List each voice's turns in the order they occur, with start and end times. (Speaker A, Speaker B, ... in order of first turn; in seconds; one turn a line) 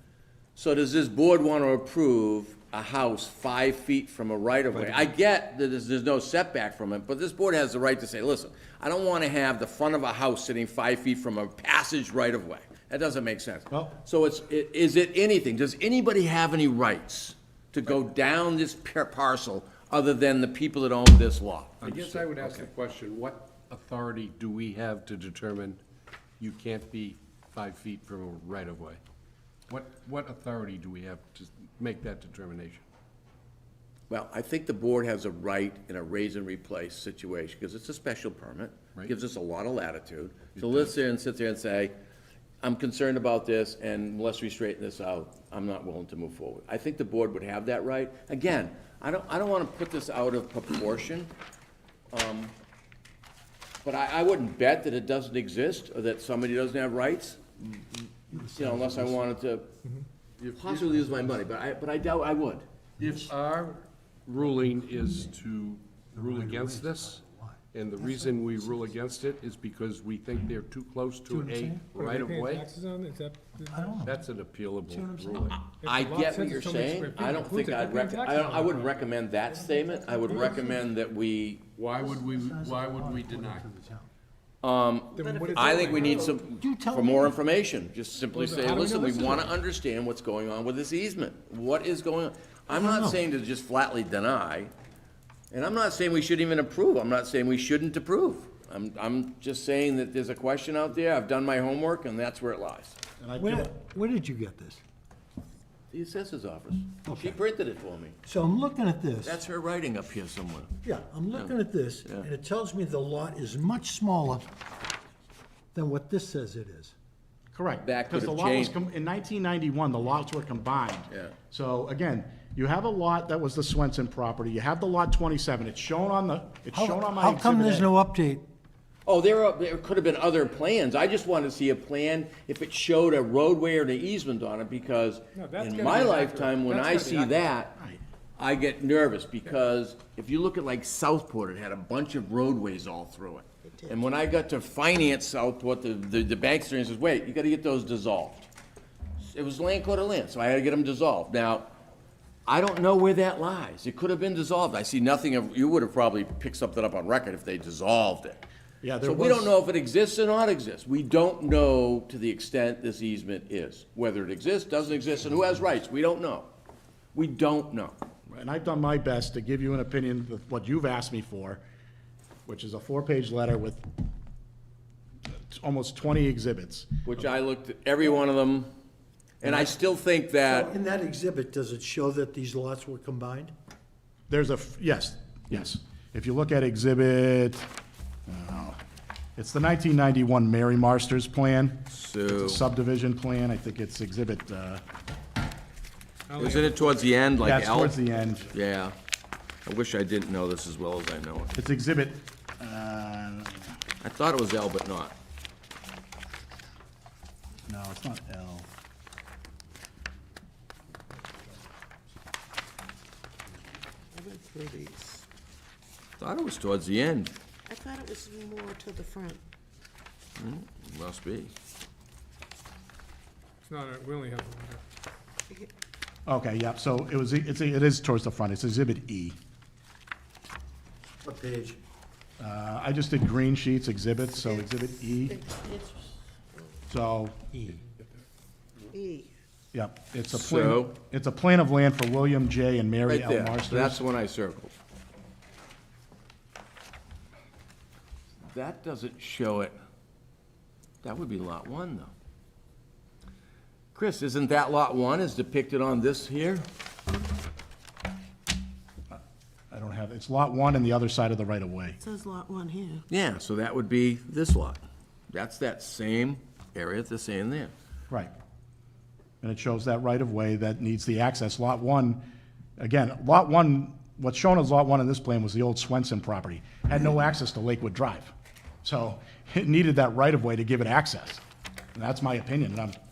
Speaker A: 0.6-22.7
Speaker B: 4.7-5.0
Speaker B: 13.7-14.0
Speaker C: 21.8-25.8
Speaker C: 26.4-29.0
Speaker C: 29.7-32.8
Speaker A: 34.1-41.9
Speaker C: 40.6-40.9
Speaker A: 42.6-51.3
Speaker A: 52.1-52.5
Speaker A: 53.8-59.7
Speaker D: 58.3-59.1
Speaker A: 60.4-62.6
Speaker D: 63.0-63.3
Speaker C: 63.0-72.8
Speaker D: 66.1-68.9
Speaker D: 71.3-71.9
Speaker E: 72.0-74.0
Speaker D: 73.6-74.2
Speaker C: 74.0-75.6
Speaker D: 74.9-75.6
Speaker A: 75.5-81.7
Speaker E: 75.8-80.7
Speaker C: 81.8-83.7
Speaker D: 82.0-84.1
Speaker A: 84.6-94.7
Speaker E: 85.2-86.4
Speaker F: 85.2-86.3
Speaker D: 86.6-87.3
Speaker E: 88.3-89.5
Speaker D: 92.7-93.2
Speaker A: 95.5-103.0
Speaker B: 103.2-103.7
Speaker D: 103.4-104.8
Speaker A: 105.9-108.2
Speaker D: 107.1-107.4
Speaker D: 108.2-109.4
Speaker A: 109.2-110.7
Speaker D: 110.8-114.5
Speaker A: 111.3-112.3
Speaker D: 115.7-116.9
Speaker B: 117.5-127.9
Speaker A: 117.8-118.8
Speaker A: 121.1-121.3
Speaker D: 126.7-128.4
Speaker A: 129.1-137.7
Speaker E: 135.3-137.5
Speaker A: 138.4-148.5
Speaker A: 149.2-151.7
Speaker A: 152.5-158.5
Speaker B: 158.8-159.5
Speaker A: 159.0-166.5
Speaker A: 167.1-168.0
Speaker B: 168.3-171.6
Speaker B: 172.5-173.8
Speaker B: 175.3-177.2
Speaker A: 177.1-178.7
Speaker A: 179.4-180.7
Speaker B: 179.4-179.8
Speaker D: 180.4-183.5
Speaker B: 184.3-187.7
Speaker B: 188.3-188.8
Speaker B: 189.4-194.8
Speaker A: 191.9-192.7
Speaker E: 196.3-197.1
Speaker A: 196.4-198.0
Speaker B: 197.4-198.5
Speaker A: 198.5-198.9
Speaker A: 199.7-201.6
Speaker B: 201.6-203.7
Speaker A: 204.0-205.2
Speaker B: 207.7-208.7
Speaker F: 214.1-215.2
Speaker A: 216.2-217.3
Speaker F: 217.7-219.4
Speaker A: 220.4-221.5
Speaker E: 223.7-224.8
Speaker B: 226.2-229.4
Speaker D: 231.2-231.8
Speaker B: 232.4-235.5
Speaker F: 235.2-235.8
Speaker B: 236.9-237.4
Speaker D: 237.5-237.8
Speaker F: 238.9-239.3
Speaker B: 239.7-244.0
Speaker A: 240.3-240.9
Speaker A: 243.1-244.7
Speaker A: 248.5-249.8
Speaker A: 251.0-252.1
Speaker A: 253.9-256.6
Speaker B: 259.7-262.0
Speaker F: 262.0-263.0
Speaker A: 263.1-264.8
Speaker A: 265.3-267.7
Speaker B: 269.4-272.2
Speaker B: 272.8-278.3
Speaker B: 278.8-281.4
Speaker B: 281.9-283.0